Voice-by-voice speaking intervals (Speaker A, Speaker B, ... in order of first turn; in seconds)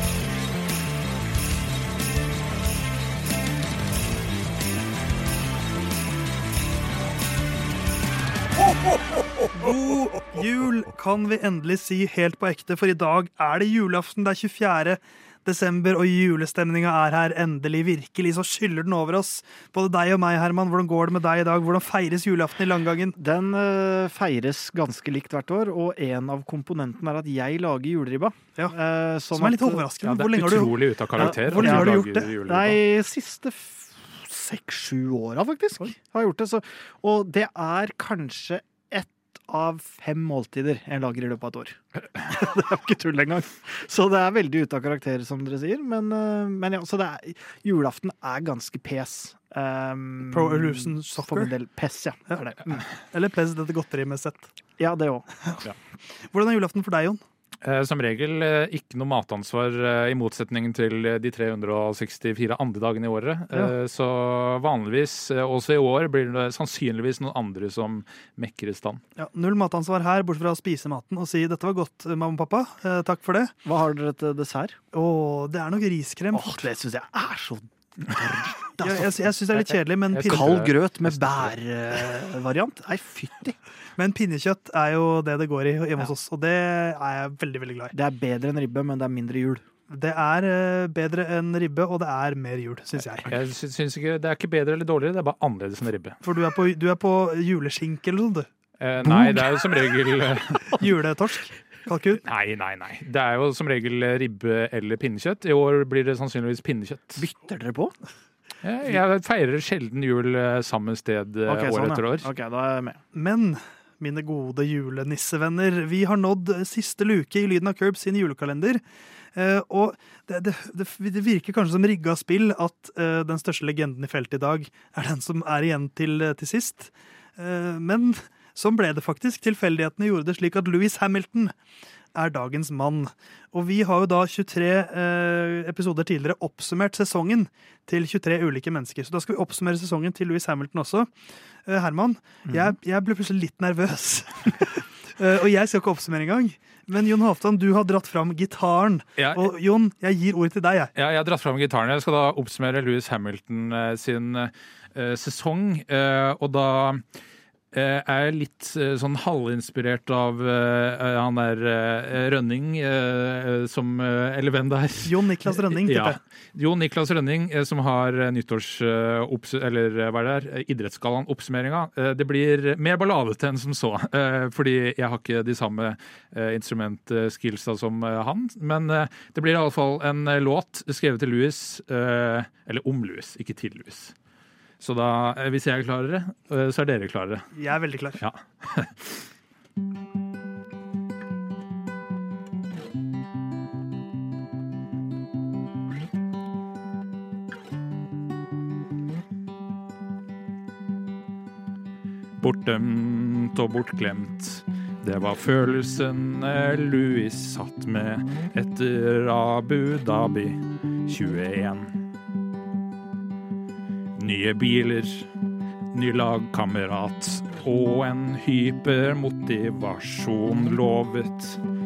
Speaker A: 9.5-23.2, 29.3-32.4, 50.3-51.5, 52.9-54.5, 56.2-57.2, 69.2-73.5, 74.9-76.7, 78.8-80.6, 84.0-87.9, 89.9-93.3, 96.2-98.5, 100.8-102.2, 113.1-118.8, 119.3-131.5, 132.2-141.2, 141.7-150.9, 165.0-166.2, 187.5-188.2
Speaker B: 23.2-29.9, 31.2-52.9, 54.8-55.3, 73.7-74.8, 76.3-79.0, 80.3-83.6, 87.9-89.6, 99.0-99.6, 107.2-108.0, 111.5-113.0
Speaker C: 30.0-32.8, 57.6-69.0, 79.5-81.5, 93.2-96.2, 98.8-100.8, 102.2-107.3, 108.6-112.3, 149.2-149.5, 150.9-157.0, 157.7-165.1, 165.7-184.2, 184.8-187.5, 188.2-189.3, 202.4-211.9, 214.2-215.3, 215.9-221.6